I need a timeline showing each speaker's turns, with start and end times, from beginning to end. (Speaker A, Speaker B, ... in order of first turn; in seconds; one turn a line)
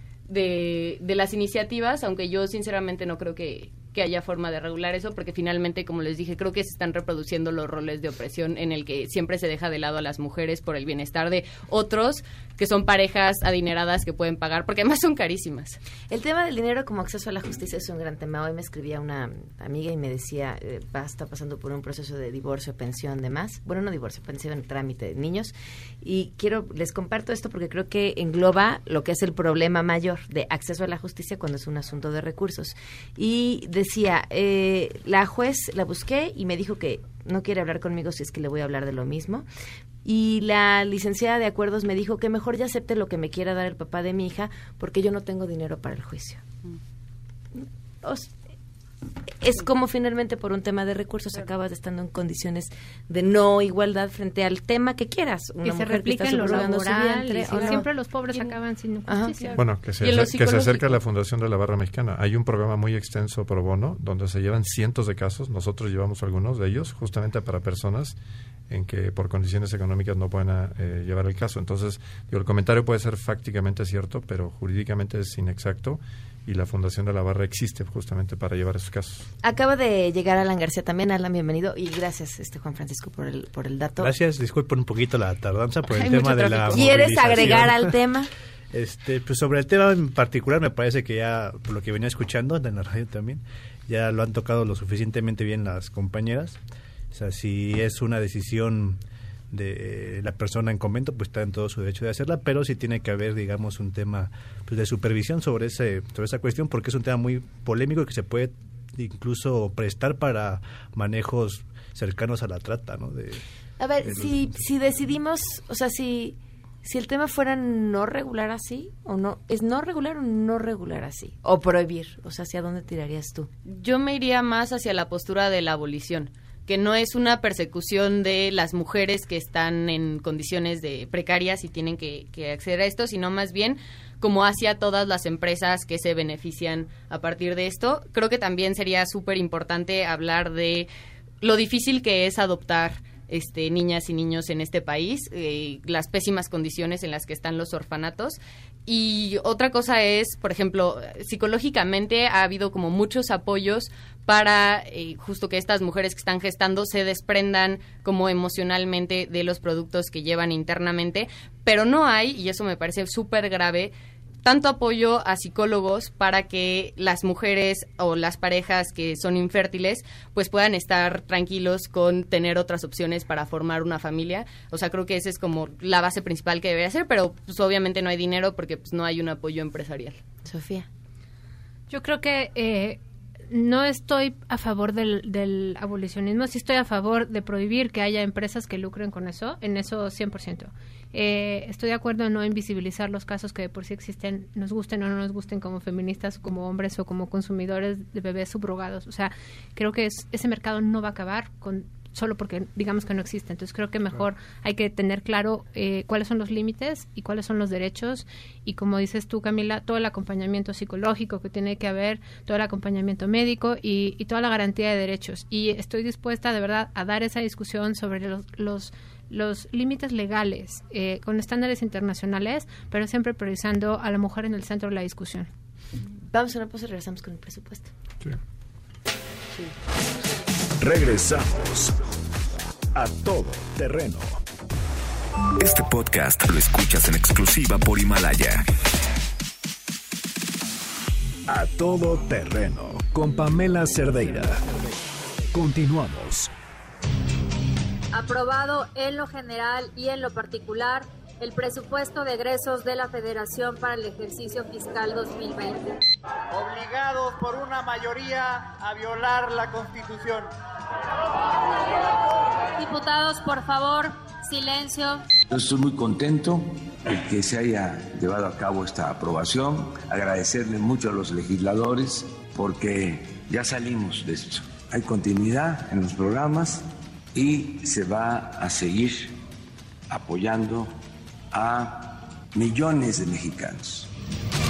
Speaker A: 0.3-15.8
Speaker B: 16.1-39.4
Speaker B: 40.0-46.4
Speaker B: 47.5-48.3
Speaker B: 49.4-57.9
Speaker C: 55.6-59.6
Speaker B: 59.1-59.5
Speaker D: 59.5-68.2
Speaker A: 60.0-60.7
Speaker D: 68.7-79.3
Speaker B: 79.4-84.1
Speaker E: 84.0-87.9
Speaker B: 85.9-88.3
Speaker E: 88.7-96.6
Speaker E: 97.1-99.0
Speaker E: 99.5-113.4
Speaker B: 113.8-123.5
Speaker E: 114.0-114.4
Speaker A: 123.7-140.9
Speaker A: 141.4-180.2
Speaker B: 180.4-180.9
Speaker C: 181.9-183.0
Speaker C: 183.5-225.5
Speaker B: 226.3-227.9
Speaker F: 230.8-231.9
Speaker F: 232.9-234.4
Speaker G: 235.6-238.7
Speaker F: 241.5-244.6
Speaker F: 245.5-246.5
Speaker H: 248.1-256.0
Speaker I: 256.5-260.5
Speaker H: 262.7-265.2
Speaker J: 265.5-279.3
Speaker J: 280.1-280.9
Speaker J: 281.5-284.1